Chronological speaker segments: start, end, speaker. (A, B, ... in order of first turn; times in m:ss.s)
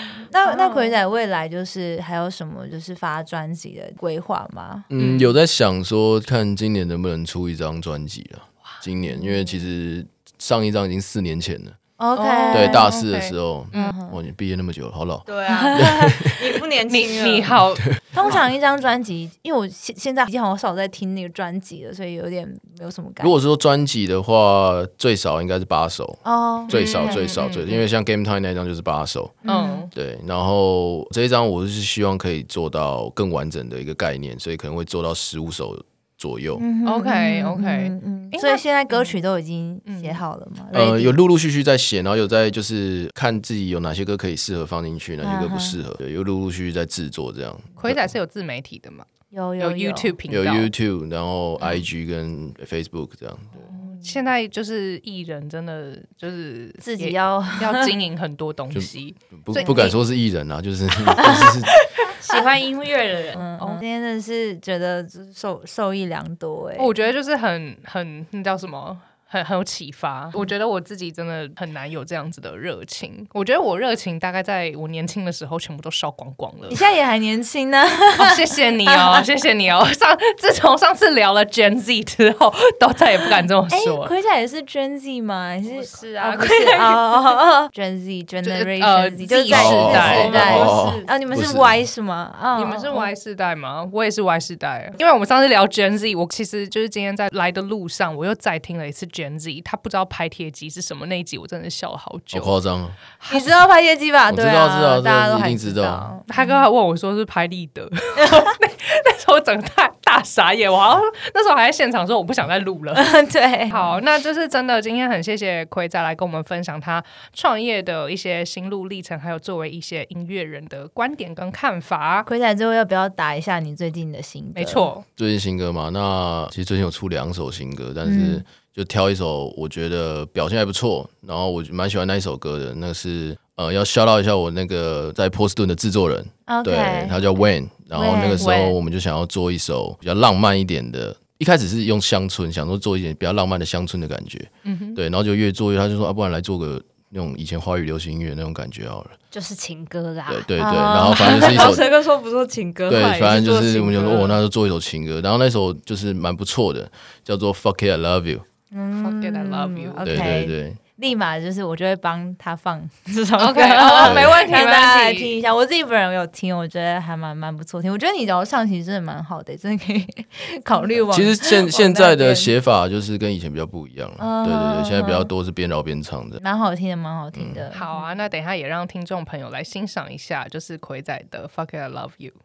0:00.3-0:04.9 A
0:00.5-0:00.9 B
0:04.9-0:11.8 C
0:05.0-0:05.3 D
0:09.1-0:09.5 A
0:12.0-0:12.8 A
0:12.2-0:14.0 D
0:12.5-0:16.4 C
0:13.8-0:14.2 A
0:15.3-0:17.6 B
0:16.9-0:18.4 D
0:18.1-0:23.4 A
0:23.2-0:29.4 C
0:26.2-0:27.2 A
0:26.7-0:27.8 D
0:29.4-0:29.9 A
0:29.4-0:29.9 D
0:29.9-0:36.6 C
0:36.6-0:41.2 A
0:36.8-0:39.2 D
0:39.8-0:40.2 D
0:40.7-0:48.2 C
0:45.2-0:45.8 A
0:47.8-0:49.1 D
0:49.3-0:50.1 A
0:49.6-0:50.7 D
0:50.3-0:53.7 C
0:53.7-1:00.0 D
0:56.8-0:57.9 A
0:58.7-1:01.7 C
0:59.6-1:00.0 A
1:01.1-1:02.1 A
1:02.2-1:03.5 B
1:03.4-1:06.9 A
1:03.6-1:03.8 D
1:06.8-1:16.8 D
1:16.7-1:19.2 A
1:18.1-1:24.1 D
1:23.7-1:33.1 A
1:25.6-1:26.8 D
1:26.2-1:27.2 B
1:28.4-1:30.5 D
1:29.5-1:31.8 C
1:29.8-1:31.1 B
1:32.5-1:42.6 D
1:42.3-1:43.0 C
1:43.2-1:43.6 D
1:43.3-1:46.6 A
1:44.3-1:46.1 C
1:46.3-1:53.2 D
1:48.2-1:48.6 A
1:53.0-1:54.0 A
1:53.7-2:02.3 D
2:02.3-2:04.9 A
2:04.6-2:05.0 D
2:05.2-2:29.2 C
2:08.0-2:08.4 A
2:16.5-2:17.2 A
2:17.9-2:18.8 A
2:24.6-2:25.0 D
2:29.3-2:30.5 B
2:30.3-2:31.9 C
2:30.6-2:31.8 A
2:31.0-2:34.3 B
2:32.9-2:38.4 C
2:38.7-2:52.5 A
2:39.0-2:40.4 D
2:40.0-2:40.8 C
2:43.4-2:45.3 D
2:44.0-2:44.4 C
2:51.1-2:56.4 C
2:54.2-2:55.3 A
2:56.4-2:58.1 A
2:57.4-2:57.6 C
2:57.7-3:02.4 D